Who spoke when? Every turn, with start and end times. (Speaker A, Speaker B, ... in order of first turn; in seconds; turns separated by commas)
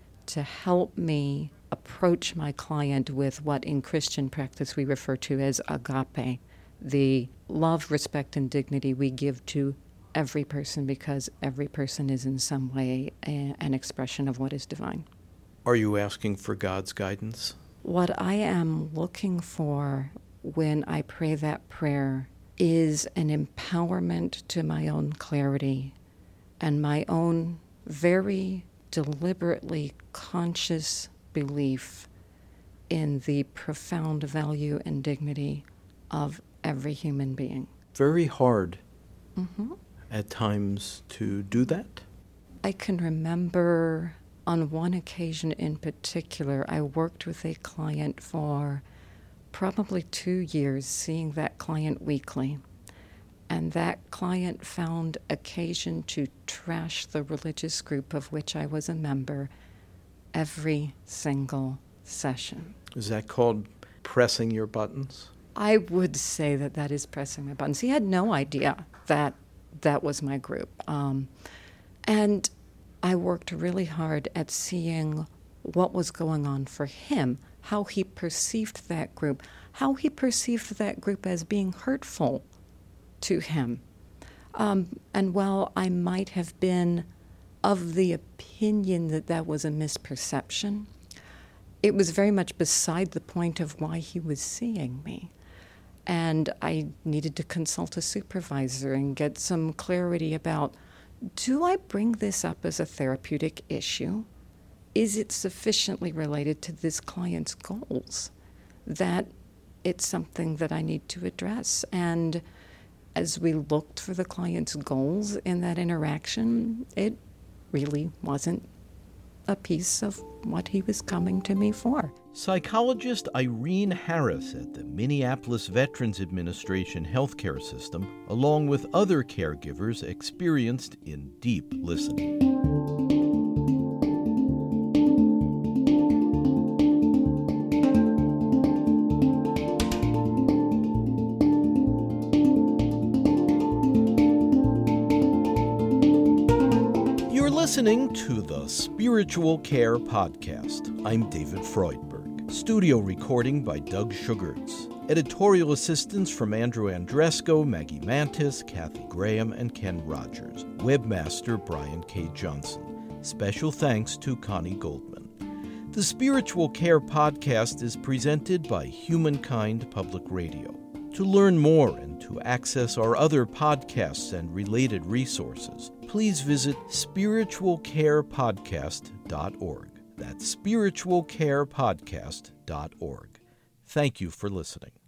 Speaker A: 0.3-15.1, Speaker B: 15.6-17.6, Speaker A: 17.8-25.9, Speaker A: 26.6-32.1, Speaker A: 32.9-37.7, Speaker B: 37.9-38.8, Speaker A: 39.4-39.8, Speaker B: 40.1-42.0, Speaker A: 42.6-48.8, Speaker A: 49.5-52.6, Speaker A: 53.5-59.5, Speaker A: 60.3-62.7, Speaker B: 62.9-65.3, Speaker A: 65.5-71.3, Speaker A: 72.0-72.5, Speaker A: 73.0-82.5, Speaker A: 83.2-83.8, Speaker A: 84.5-87.1, Speaker A: 87.6-90.9, Speaker A: 91.8-95.3, Speaker A: 96.1-100.8, Speaker A: 101.3-104.3, Speaker A: 104.9-108.3, Speaker A: 108.8-109.3, Speaker A: 109.8-112.4, Speaker A: 113.1-117.2, Speaker A: 117.7-118.7, Speaker A: 119.5-122.1, Speaker B: 122.3-132.3, Speaker B: 147.3-165.3, Speaker B: 165.9-184.9